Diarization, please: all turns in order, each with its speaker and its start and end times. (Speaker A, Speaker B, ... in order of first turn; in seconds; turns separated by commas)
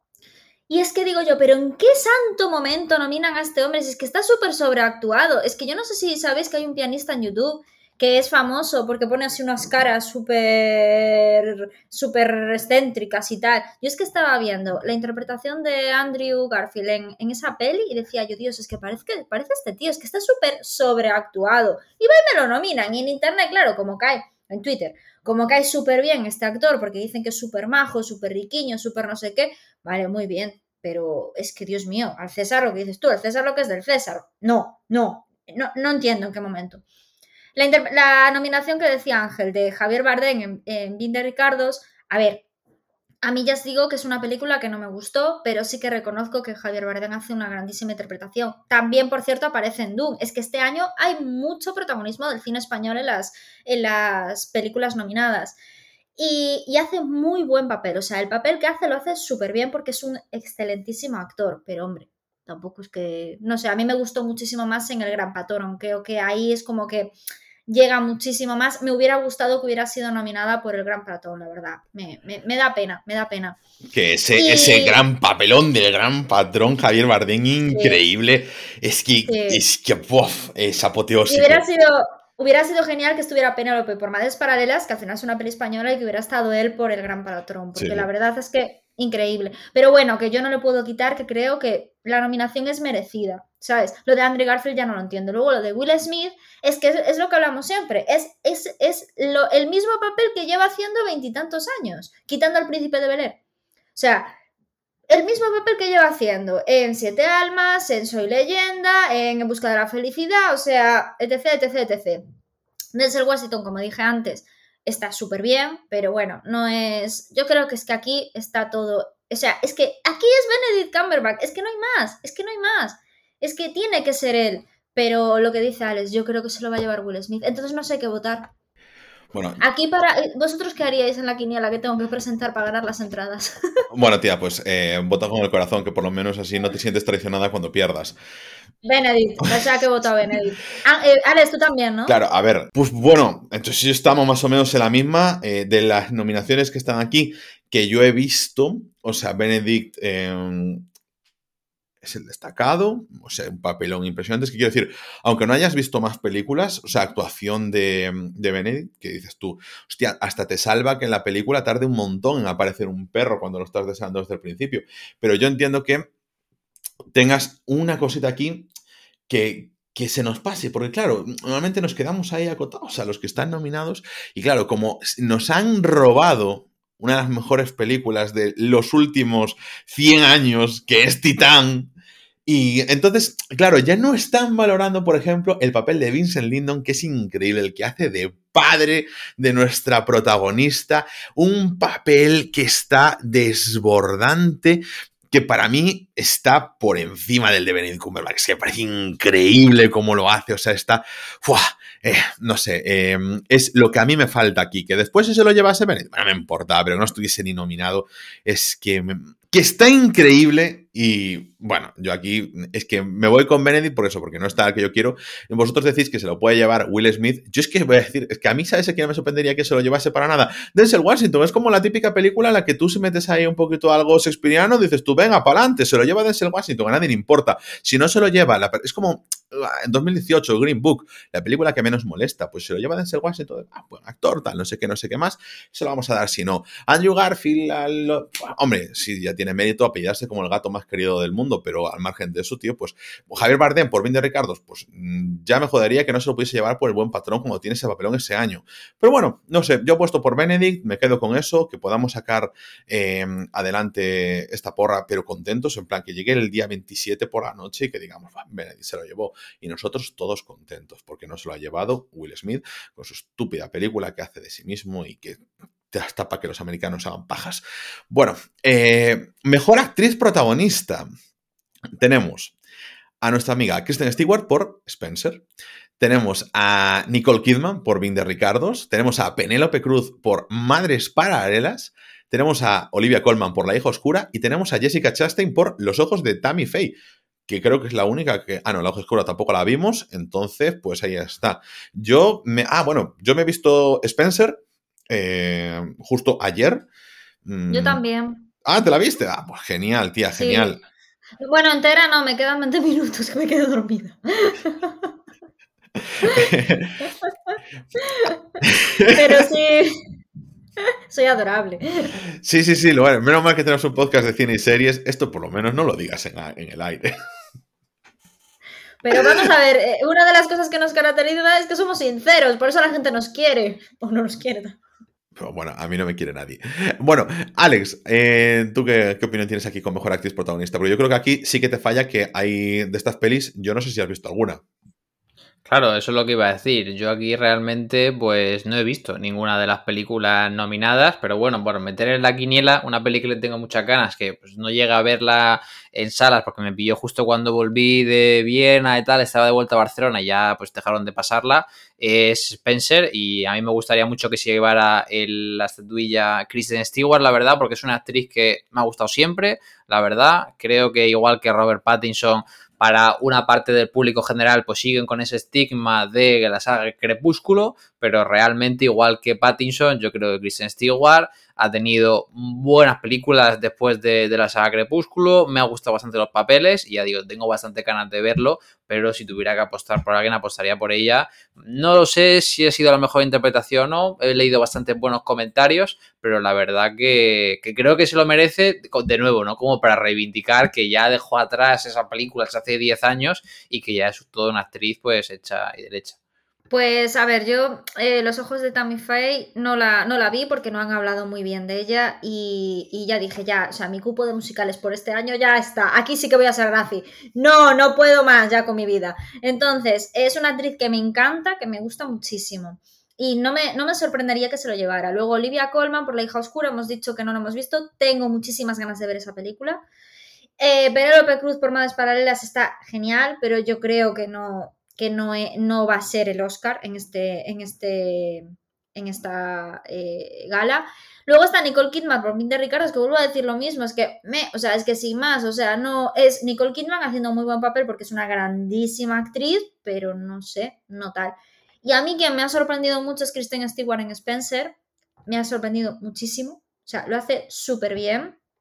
Speaker A: 0.7-36.8, Speaker A: 37.6-42.5, Speaker A: 43.2-55.6, Speaker A: 56.2-67.2, Speaker A: 67.7-73.6, Speaker B: 73.9-81.6, Speaker A: 74.4-75.0, Speaker A: 77.7-78.0, Speaker A: 79.3-79.6, Speaker A: 81.3-103.4, Speaker B: 87.8-88.1, Speaker A: 104.0-104.3, Speaker A: 105.1-112.2, Speaker A: 112.9-128.5, Speaker B: 129.3-129.6, Speaker A: 129.6-133.6, Speaker B: 133.9-138.2, Speaker A: 138.8-142.2, Speaker B: 142.1-150.9, Speaker B: 152.0-166.1, Speaker B: 167.1-168.7, Speaker B: 169.3-181.9, Speaker B: 182.5-271.1, Speaker B: 272.0-272.6, Speaker B: 273.2-275.4, Speaker B: 276.0-287.0, Speaker B: 287.5-296.9, Speaker B: 297.4-298.0, Speaker A: 297.7-298.5, Speaker B: 298.6-300.8, Speaker A: 300.3-300.8, Speaker A: 301.4-305.1, Speaker A: 306.2-306.5, Speaker B: 306.2-306.9, Speaker A: 308.0-308.4, Speaker B: 308.6-309.4, Speaker A: 309.1-309.9, Speaker A: 311.1-312.1, Speaker B: 312.4-317.1, Speaker A: 319.0-324.8, Speaker B: 319.1-319.5, Speaker B: 325.4-334.6, Speaker C: 335.7-396.2, Speaker A: 396.7-419.8, Speaker A: 420.6-444.7, Speaker A: 445.3-448.4